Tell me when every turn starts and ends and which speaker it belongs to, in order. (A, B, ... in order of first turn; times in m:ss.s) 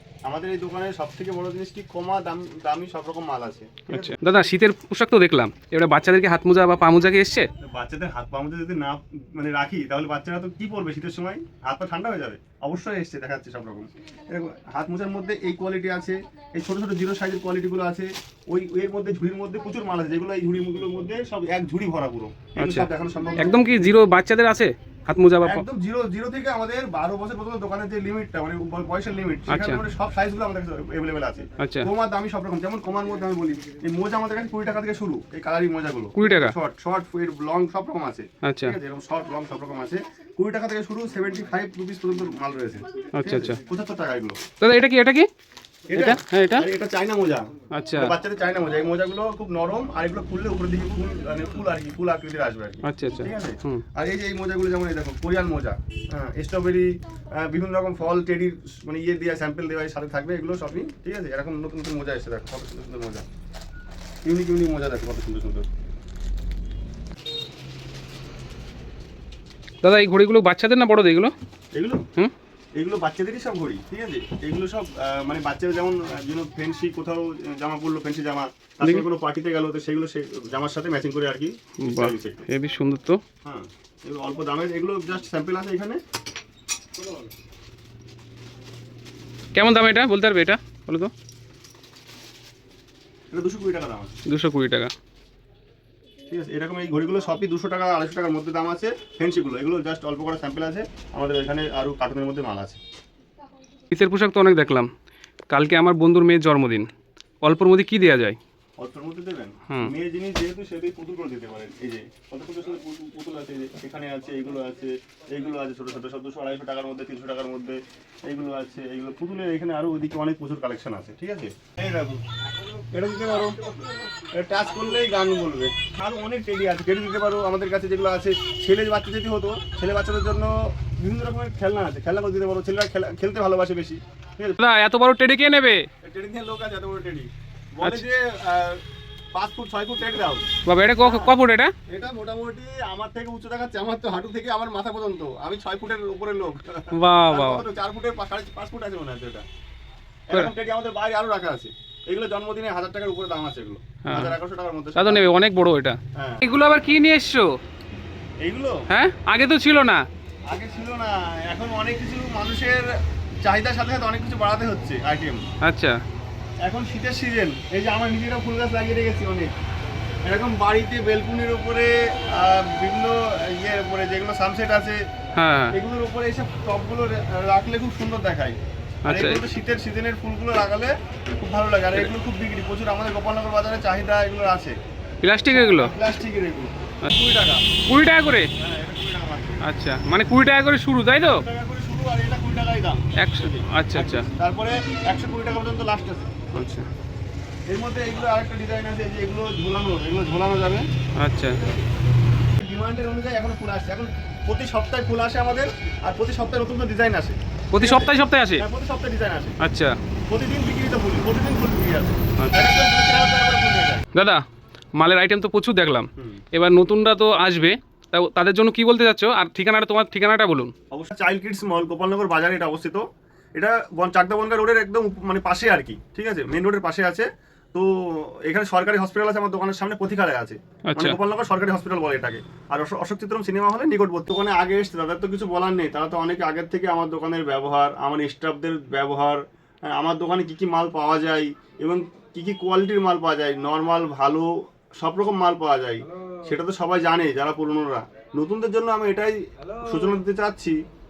0:00.3-0:04.2 A
0:03.9-0:07.5 B
0:07.6-0:23.6 A
0:22.6-0:22.9 B
0:23.4-0:25.6 B
0:25.4-0:44.4 A
0:29.5-0:29.8 B
0:31.6-0:31.9 B
0:36.2-0:36.6 B
0:38.4-0:38.8 B
0:43.1-0:43.6 B
0:44.6-0:45.3 B
0:45.9-0:46.7 B
0:45.9-1:03.3 A
0:47.7-0:48.2 B
0:52.8-0:53.8 B
1:04.2-1:05.7 A
1:09.8-1:11.3 B
1:11.8-1:12.0 A
1:12.8-1:22.5 A
1:21.8-1:23.2 B
1:23.4-1:26.0 A
1:29.6-1:31.1 B
1:33.3-1:34.1 A
1:34.3-1:34.9 B
1:36.3-1:42.8 A
1:43.9-1:44.9 B
1:45.5-1:46.9 B
1:47.4-1:48.4 B
1:48.8-2:02.2 A
2:02.9-2:03.6 A
2:04.3-2:14.6 A
2:14.6-2:15.9 B
2:16.0-2:18.8 A
2:19.4-2:20.4 A
2:20.7-2:21.7 B
2:21.0-2:21.3 A
2:21.9-2:29.4 A
2:26.9-2:27.6 B
2:30.3-2:35.3 A
2:34.1-2:34.4 B
2:35.0-2:37.6 B
2:36.2-2:36.4 A
2:38.4-2:38.8 A
2:38.9-2:40.0 B
2:40.5-2:42.9 A
2:43.4-2:45.4 A
2:45.6-2:46.0 B
2:46.6-2:49.5 A
2:50.3-2:55.0 A
2:55.4-2:55.7 B
2:55.7-2:58.6 A
2:59.1-2:59.4 B
2:59.1-3:04.8 A
3:05.2-3:05.9 B
3:05.5-3:07.6 A
3:07.9-3:08.5 B
3:08.6-3:09.6 A
3:09.6-3:11.4 B
3:11.2-3:16.6 A
3:13.2-3:14.3 B
3:16.5-3:16.9 B
3:17.7-3:20.8 A
3:21.2-3:21.6 B
3:21.5-3:21.8 A
3:22.6-3:29.6 A
3:27.7-3:28.6 B
3:29.6-3:30.0 B
3:30.3-3:34.0 A
3:32.4-3:32.7 B
3:34.2-3:34.4 B
3:35.0-3:40.7 B
3:36.2-3:36.4 A
3:40.9-3:43.0 A
3:43.6-3:59.4 A
3:50.9-3:51.2 B
3:59.9-4:04.5 A
4:05.0-4:10.8 A